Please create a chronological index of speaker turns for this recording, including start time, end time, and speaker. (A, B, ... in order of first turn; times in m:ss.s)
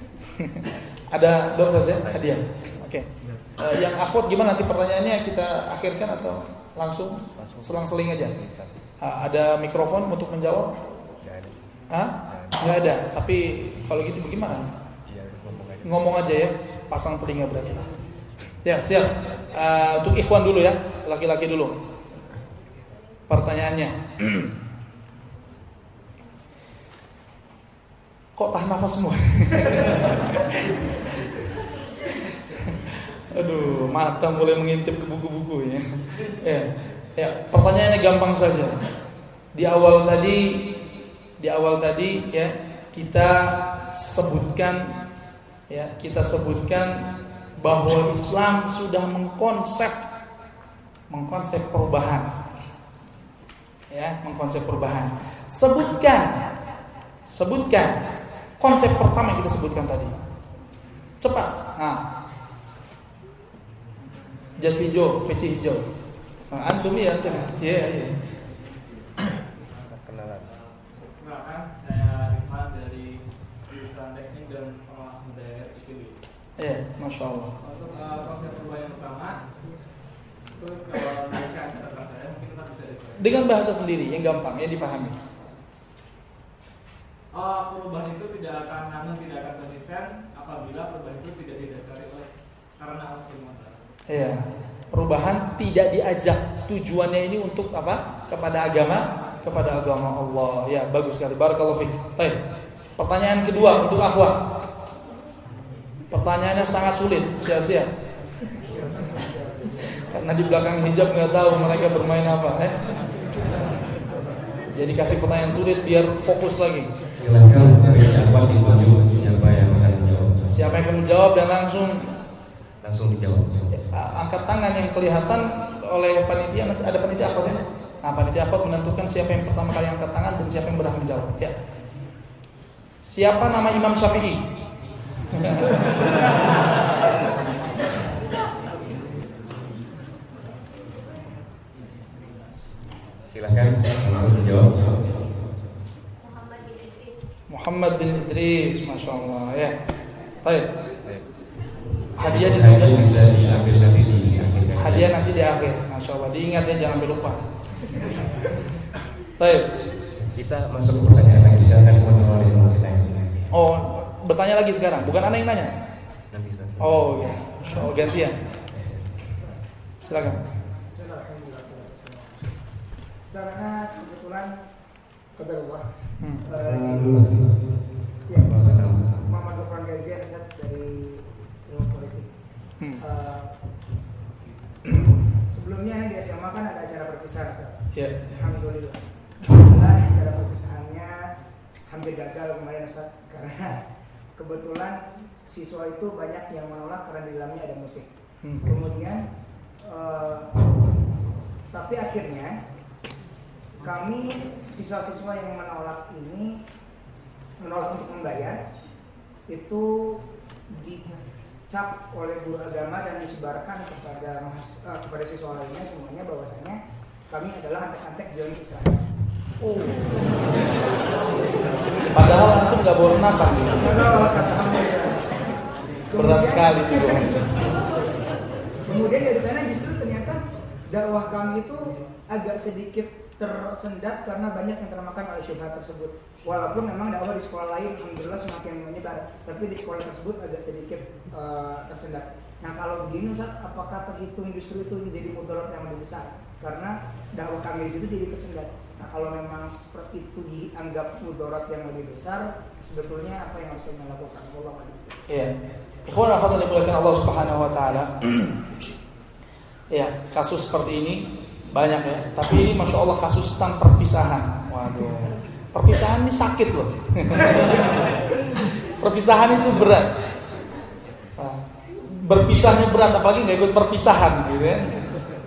0:00.3-0:08.3 A
0:01.9-0:02.4 B
0:07.4-0:08.7 B
0:09.0-0:10.8 A
0:11.2-0:12.6 B
0:11.9-0:14.7 A
0:15.1-0:16.2 B
0:15.8-0:17.9 A
0:18.6-0:21.8 A
0:23.3-0:24.5 A
0:28.4-0:30.9 A
0:32.6-0:38.7 A
0:39.5-0:40.8 A
0:41.4-0:45.0 A
0:45.7-0:50.0 A
0:51.1-0:52.4 A
0:53.9-0:56.3 A
0:57.3-0:58.0 A
0:58.6-1:00.1 A
1:01.2-1:02.0 A
1:04.6-1:05.8 A
1:06.5-1:08.2 A
1:09.8-1:10.5 B
1:11.1-1:16.2 C
1:16.6-1:17.5 A
1:17.6-1:19.4 C
1:20.5-1:23.4 C
1:23.2-1:25.2 A
1:27.3-1:33.9 C
1:34.1-1:42.4 A
1:43.0-1:44.4 A
1:46.1-1:47.9 A
1:50.0-1:52.8 A
1:54.7-1:56.9 A
1:57.2-2:00.8 B
2:00.5-2:02.1 A
2:02.8-2:03.8 B
2:03.7-2:11.6 A
2:13.0-2:14.5 A
2:15.3-2:15.8 A
2:23.3-2:25.5 B
2:27.5-2:29.7 A
2:32.2-2:33.4 A
2:32.2-2:35.2 B
2:34.8-2:37.4 A
2:39.4-2:39.7 A
2:40.3-2:43.5 B
2:43.5-2:45.7 A
2:46.3-2:47.4 B
2:46.8-2:48.3 A
2:48.7-2:49.4 B
2:50.0-2:50.4 A
2:50.1-2:50.3 D
2:50.9-2:52.5 D
2:53.3-2:54.5 D
2:55.3-2:57.3 D
2:56.6-2:59.2 B
2:58.3-3:02.3 D
3:03.0-3:03.5 D
3:04.9-3:11.2 D
3:07.9-3:08.4 A
3:11.9-3:13.8 D
3:14.4-3:18.1 D
3:18.4-3:18.7 A
3:18.6-3:19.2 D
3:19.8-3:20.7 D
3:21.7-3:22.6 D
3:23.8-3:26.6 D
3:27.6-3:28.6 D
3:29.5-3:39.0 D
3:39.6-3:40.3 A
3:42.1-3:44.4 A
3:43.7-3:45.3 D
3:46.1-3:48.1 D
3:46.2-3:47.4 A
3:48.8-4:15.2 D
4:16.1-4:18.6 A
4:19.9-4:28.0 A
4:29.0-4:30.1 A
4:31.4-4:35.0 A